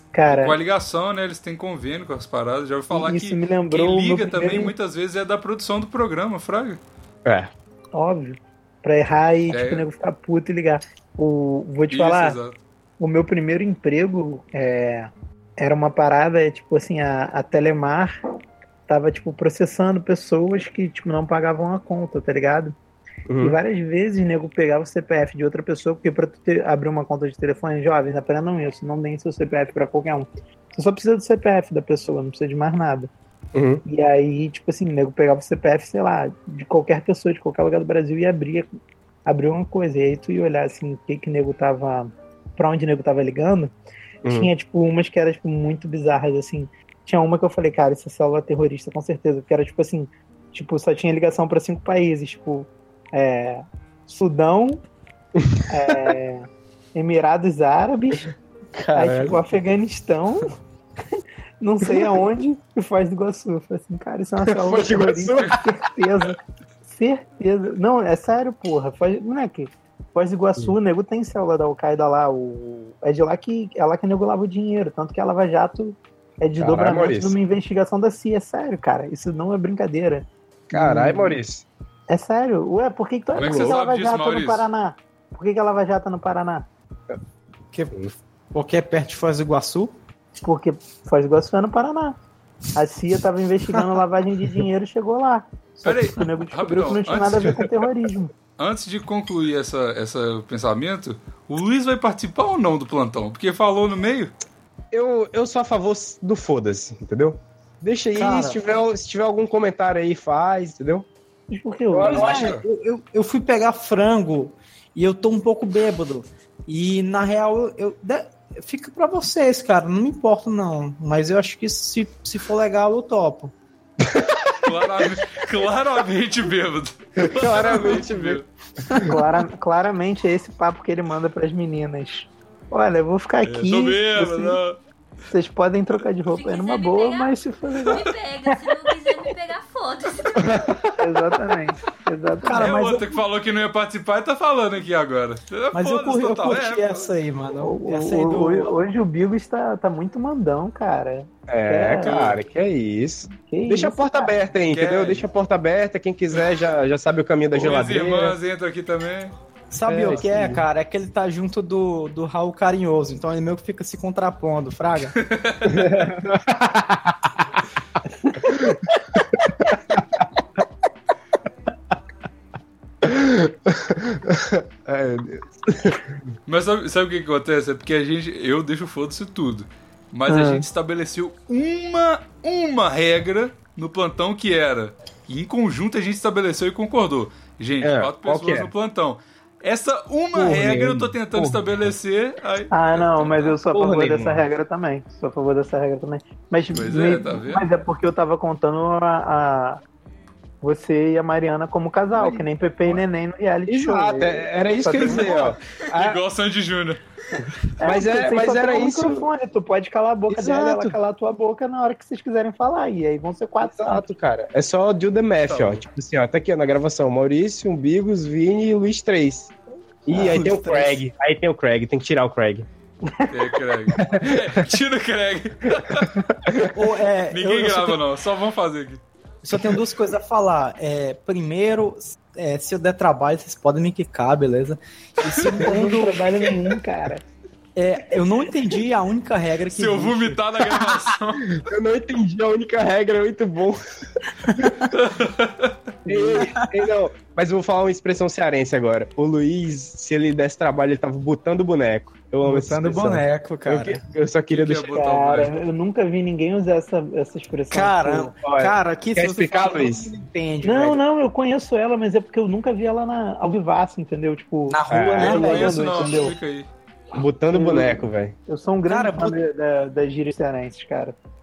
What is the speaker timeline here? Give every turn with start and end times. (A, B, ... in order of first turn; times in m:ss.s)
0:00.1-0:00.6 A
0:00.3-0:06.8 B
0:02.9-0:04.7 A
0:07.2-0:07.5 C
0:07.9-0:12.4 A
0:09.5-0:09.8 B
0:11.9-0:12.6 B
0:13.0-0:18.1 A
0:18.9-0:22.7 A
0:23.3-0:23.6 C
0:23.4-0:33.1 A
0:33.5-0:33.8 C
0:33.8-0:38.6 A
0:39.2-0:43.7 A
0:44.2-0:44.5 C
0:44.2-0:54.8 A
0:55.4-0:56.1 C
0:55.7-0:58.3 A
0:58.7-0:59.4 C
0:58.9-1:00.5 A
1:01.6-1:21.4 A
1:04.5-1:05.6 C
1:16.6-1:17.4 C
1:20.7-1:21.6 C
1:22.1-1:26.7 A
1:23.4-1:24.6 B
1:23.4-1:23.7 C
1:28.5-1:30.0 D
1:30.4-1:32.2 A
1:32.7-1:38.3 A
1:35.8-1:37.6 B
1:38.6-1:44.3 B
1:44.9-1:51.1 C
1:48.2-1:48.6 A
1:51.5-1:52.5 A
1:51.9-1:52.6 C
1:52.0-2:03.5 D
2:04.0-2:04.5 C
2:04.6-2:08.5 B
2:07.2-2:09.2 C
2:08.9-2:14.6 A
2:13.4-2:14.8 B
2:15.3-2:18.5 A
2:16.3-2:17.4 E
2:17.9-2:20.6 E
2:20.4-2:20.9 C
2:21.0-2:23.0 A
2:22.4-2:23.1 D
2:22.5-2:27.1 B
2:25.7-2:28.7 D
2:27.6-2:32.3 A
2:31.5-2:38.4 C
2:32.0-2:32.4 B
2:33.4-2:34.3 A
2:34.7-2:35.2 B
2:37.5-2:39.3 B
2:39.7-2:45.2 D
2:39.9-2:40.6 C
2:45.2-2:46.0 B
2:45.7-2:47.1 C
2:48.2-2:48.6 A
2:48.5-2:48.8 C
2:53.0-2:56.1 C
2:56.4-3:13.6 B
3:07.8-3:08.7 C
3:10.3-3:11.9 C
3:12.7-3:19.8 A
3:13.7-3:14.4 C
3:16.7-3:17.6 B
3:20.6-3:25.6 A
3:22.2-3:23.0 C
3:23.7-3:26.2 C
3:25.0-3:25.3 B
3:25.9-3:27.0 B
3:27.8-3:34.0 A
3:27.8-3:29.3 C
3:30.3-3:31.0 C
3:33.6-3:39.5 C
3:35.4-3:35.8 B
3:40.0-3:42.7 C
3:40.1-3:41.0 D
3:43.0-3:43.3 A
3:43.3-3:46.1 B
3:43.9-3:44.4 C
3:46.4-3:46.8 C
3:46.7-3:48.0 D
3:47.3-3:49.0 B
3:49.4-3:56.3 D
3:55.6-3:57.2 A
3:57.8-4:01.0 D
3:59.7-4:01.6 B
4:01.6-4:03.8 C
4:04.9-4:05.7 B
4:06.0-4:14.9 C
4:06.1-4:06.7 D
4:12.4-4:14.0 D
4:14.5-4:15.5 B
4:14.9-4:18.3 A
4:17.7-4:21.0 D
4:18.4-4:20.1 C
4:20.6-4:26.4 A
4:24.7-4:26.3 D
4:24.9-4:25.4 C
4:25.2-4:26.7 B
4:27.1-4:28.4 C
4:27.5-4:31.2 A
4:28.9-4:29.4 D